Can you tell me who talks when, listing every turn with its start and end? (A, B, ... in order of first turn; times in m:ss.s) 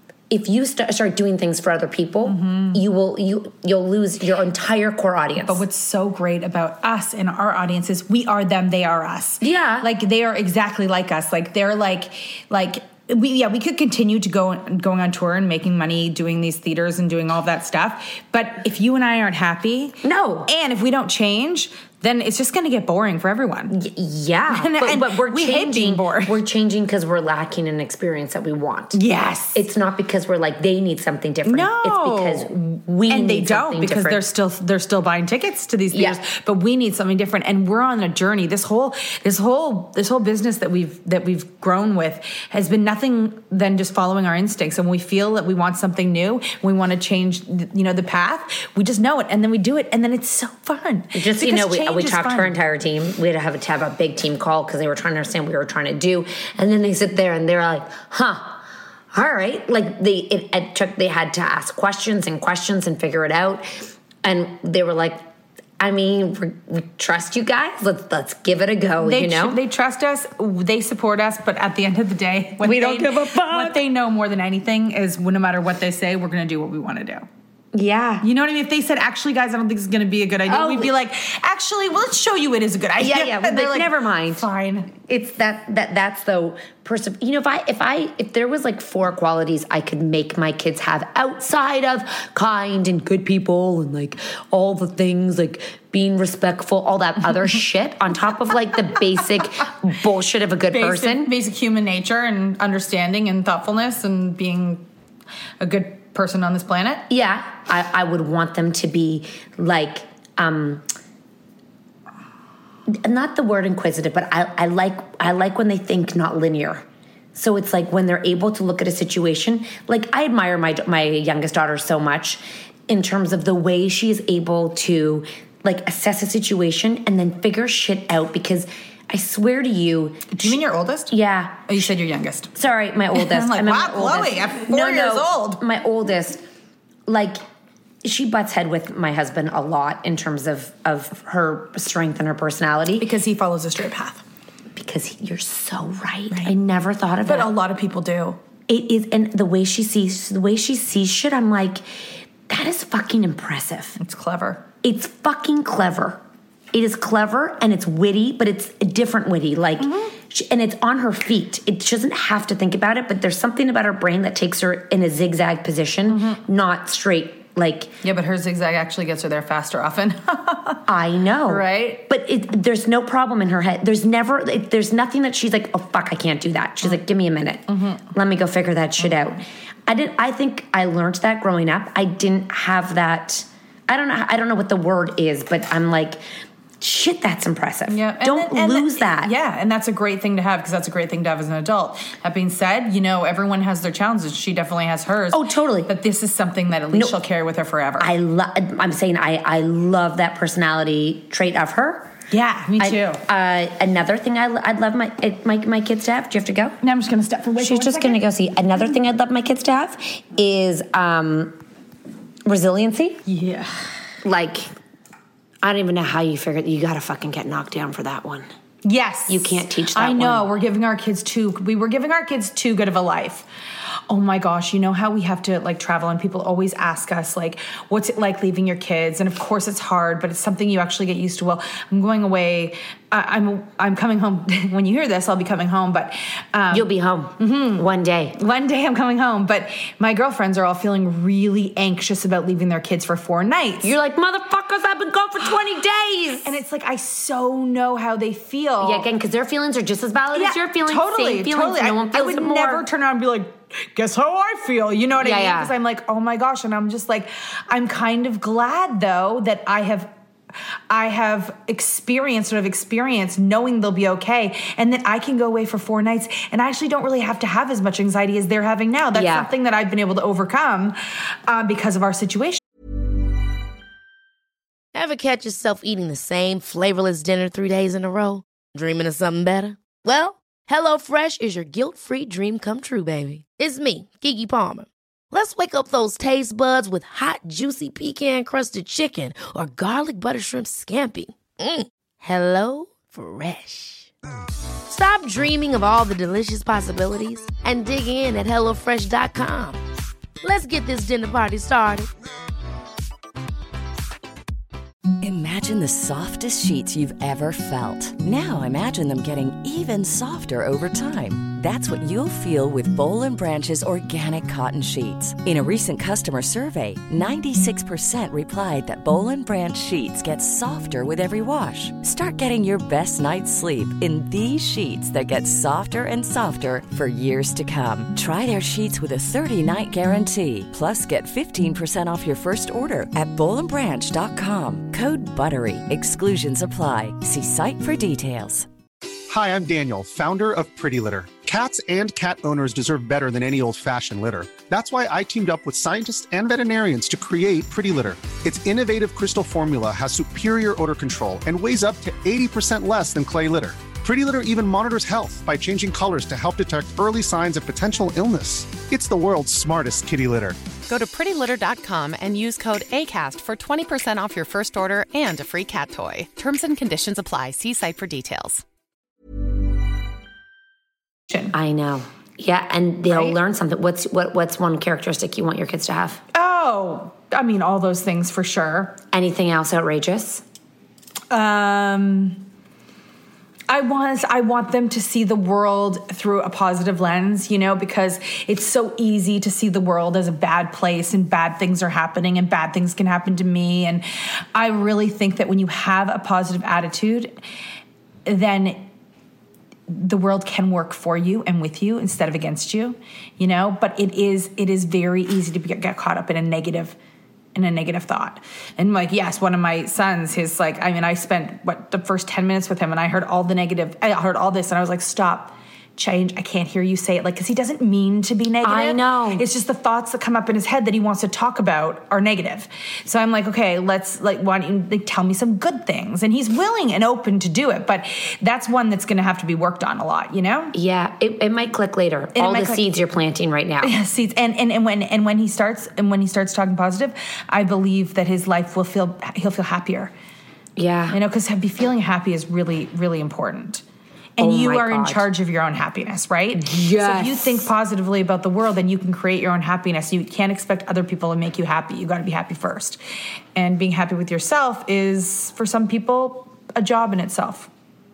0:00.3-0:05.6 A
0:02.2-0:02.8 B
0:05.4-0:23.7 B
0:09.4-0:09.9 A
0:20.0-0:20.5 A
0:23.7-0:29.0 A
0:24.5-0:26.4 B
0:28.9-0:29.6 B
0:29.5-0:34.2 A
0:31.4-0:52.6 B
0:35.9-0:36.2 A
0:51.1-0:58.6 A
0:59.1-1:03.6 A
1:04.2-1:05.2 A
1:05.8-1:09.6 A
1:09.0-1:17.3 B
1:12.6-1:13.8 A
1:17.7-1:18.3 A
1:18.2-1:24.9 B
1:20.5-1:20.9 A
1:23.0-1:24.4 A
1:25.0-1:41.3 A
1:40.7-1:44.9 B
1:45.6-1:47.0 B
1:47.1-1:50.9 A
1:52.9-1:56.8 A
1:57.4-2:11.6 A
2:10.3-2:11.1 B
2:11.7-2:12.5 B
2:12.5-2:16.4 A
2:13.1-2:15.6 B
2:17.1-2:17.4 A
2:18.0-2:23.1 A
2:23.0-2:24.2 B
2:24.8-2:27.5 A
2:27.2-2:28.4 B
2:28.7-2:31.8 A
2:32.5-2:34.0 A
2:34.0-2:34.7 B
2:34.8-2:36.2 A
2:36.7-2:47.9 A
2:39.8-2:40.1 B
2:46.1-2:46.4 B
2:48.0-2:50.8 B
2:50.9-3:06.2 A
2:51.5-2:52.0 B
2:57.7-2:58.0 B
3:06.8-3:09.3 A
3:07.9-3:18.1 B
3:15.3-3:15.9 A
3:16.9-3:17.2 A
3:18.0-3:22.1 A
3:22.3-3:23.2 B
3:22.8-3:26.8 A
3:26.8-3:28.2 B
3:27.6-3:31.6 A
3:32.4-3:33.2 A
3:33.3-3:33.8 B
3:34.2-3:34.7 A
3:35.6-3:38.5 A
3:38.8-3:43.5 B
3:39.3-3:40.5 A
3:44.1-4:04.0 B
3:56.7-3:58.4 A
4:03.8-4:06.5 A
4:06.4-4:09.1 B
4:08.8-4:12.8 A
4:10.3-4:20.1 B
4:15.2-4:15.7 A
4:20.9-4:32.6 B
4:29.1-4:29.5 A
4:34.9-4:54.1 C
4:54.9-4:59.8 C
5:00.4-5:02.1 C
5:05.2-5:38.7 D
5:39.3-6:00.6 E
6:00.9-6:08.6 F
6:11.5-6:16.2 A
6:13.1-6:13.4 B
6:16.3-6:19.0 B
6:19.1-6:20.4 A
6:21.3-6:22.4 B
6:23.7-6:37.4 B
6:38.2-6:38.8 B
6:39.9-6:47.0 B
6:47.6-7:10.7 B
6:58.6-6:59.4 A
7:10.7-7:14.0 A
7:12.3-7:12.9 B
7:13.8-7:20.1 B
7:20.8-7:21.2 A
7:21.1-7:23.8 B
7:24.4-7:33.0 B
7:24.4-7:25.3 A
7:26.6-7:27.6 A
7:33.6-7:37.7 B